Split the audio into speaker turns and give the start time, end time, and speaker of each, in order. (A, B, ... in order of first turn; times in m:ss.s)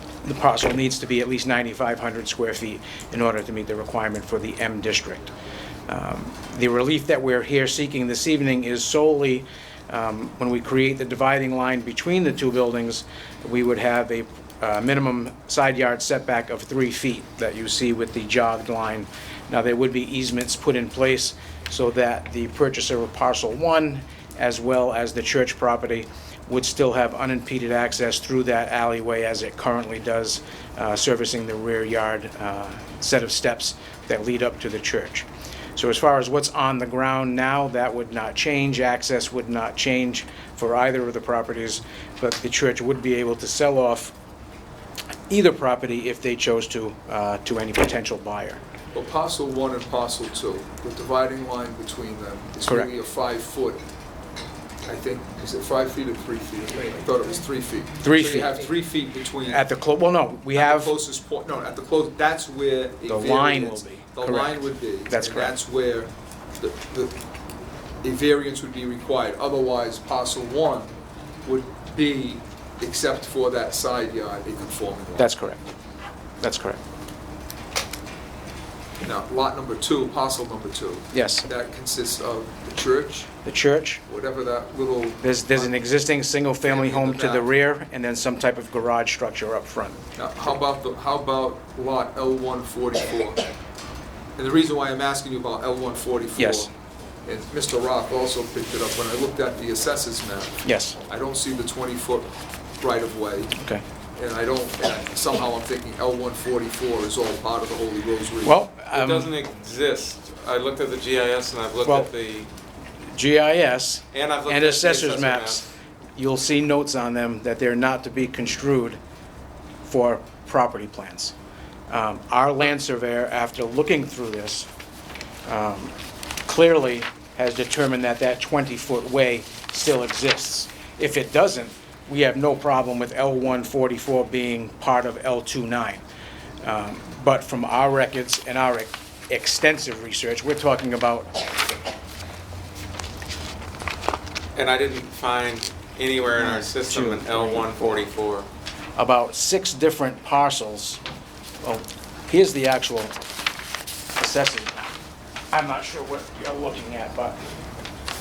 0:00.2-0:05.3 A
0:05.9-0:44.1 A
0:45.3-0:48.6 A
0:48.9-0:53.8 B
0:52.7-0:52.9 A
0:54.9-0:59.6 B
0:58.0-0:58.6 A
0:59.4-1:00.9 A
1:00.5-1:07.2 B
1:03.1-1:05.6 A
1:08.0-1:15.3 B
1:15.2-1:15.7 A
1:16.4-1:16.8 A
1:19.0-1:23.3 B
1:21.1-1:21.5 A
1:23.4-1:24.0 A
1:24.1-1:25.8 B
1:25.2-1:30.0 A
1:26.6-1:27.5 B
1:30.2-1:33.4 B
1:34.4-1:36.7 B
1:36.4-1:36.7 A
1:37.3-1:42.3 B
1:40.6-1:41.0 A
1:42.8-1:43.6 B
1:44.2-1:48.6 B
1:48.4-1:49.3 A
1:48.9-1:52.5 C
1:51.8-1:52.1 A
1:53.1-1:59.0 A
1:54.1-1:55.6 C
1:59.8-2:01.3 A
2:01.9-2:04.7 A
2:05.5-2:05.9 A
2:06.5-2:16.0 A
2:16.6-2:21.4 A
2:24.6-2:28.5 C
2:26.4-2:27.8 A
2:29.0-2:31.0 A
2:31.6-2:33.2 A
2:34.2-2:34.8 A
2:35.5-2:37.4 A